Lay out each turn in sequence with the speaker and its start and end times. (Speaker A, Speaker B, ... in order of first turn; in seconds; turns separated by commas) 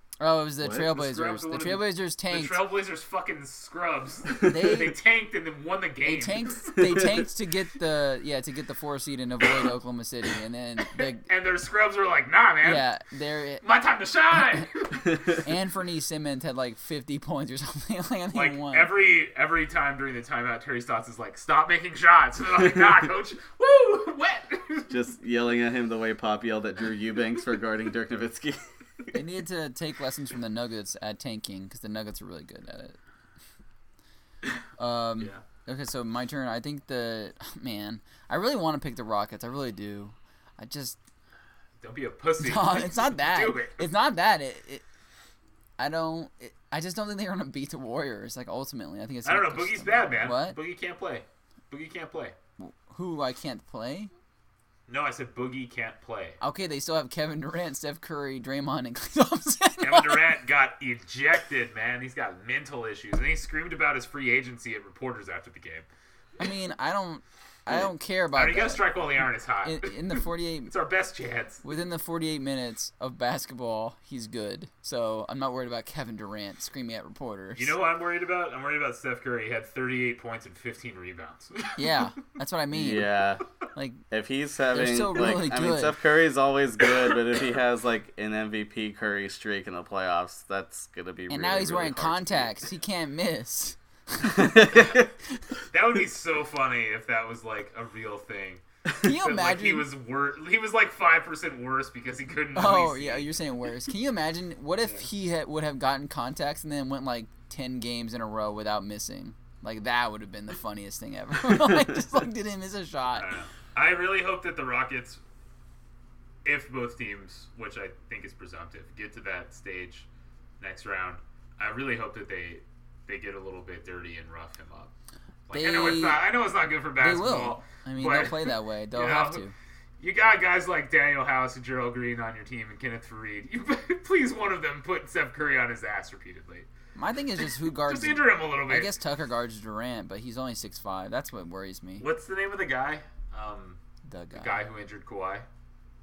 Speaker A: 0.2-2.6, Speaker B: 0.9-6.9, Speaker A: 4.4-5.0, Speaker A: 6.0-11.2, Speaker B: 11.2-12.8, Speaker A: 12.6-13.6, Speaker B: 13.6-15.2, Speaker A: 15.3-18.9, Speaker B: 18.3-24.9, Speaker C: 24.9-28.6, Speaker A: 29.1-33.0, Speaker A: 34.8-41.0, Speaker B: 41.8-43.8, Speaker A: 42.4-44.8, Speaker A: 45.8-50.6, Speaker B: 49.2-52.3, Speaker A: 52.6-54.1, Speaker B: 54.9-56.4, Speaker A: 56.4-60.3, Speaker B: 59.8-65.9, Speaker A: 66.4-68.8, Speaker B: 68.3-71.6, Speaker A: 69.6-70.7, Speaker A: 71.6-77.7, Speaker B: 77.5-81.9, Speaker A: 81.8-83.1, Speaker C: 82.7-83.4, Speaker A: 83.7-84.0, Speaker C: 84.1-92.5, Speaker A: 84.7-86.0, Speaker A: 91.3-95.0, Speaker C: 94.2-95.1, Speaker B: 95.7-103.3, Speaker A: 99.0-99.9, Speaker A: 102.5-113.3, Speaker B: 113.2-115.2, Speaker B: 116.4-120.1, Speaker B: 120.6-124.9, Speaker B: 125.5-129.4, Speaker A: 125.5-126.2, Speaker A: 127.0-129.5, Speaker B: 130.0-136.7, Speaker A: 136.9-142.1, Speaker B: 137.7-138.9, Speaker B: 142.0-143.8, Speaker A: 144.0-144.6, Speaker B: 144.3-145.5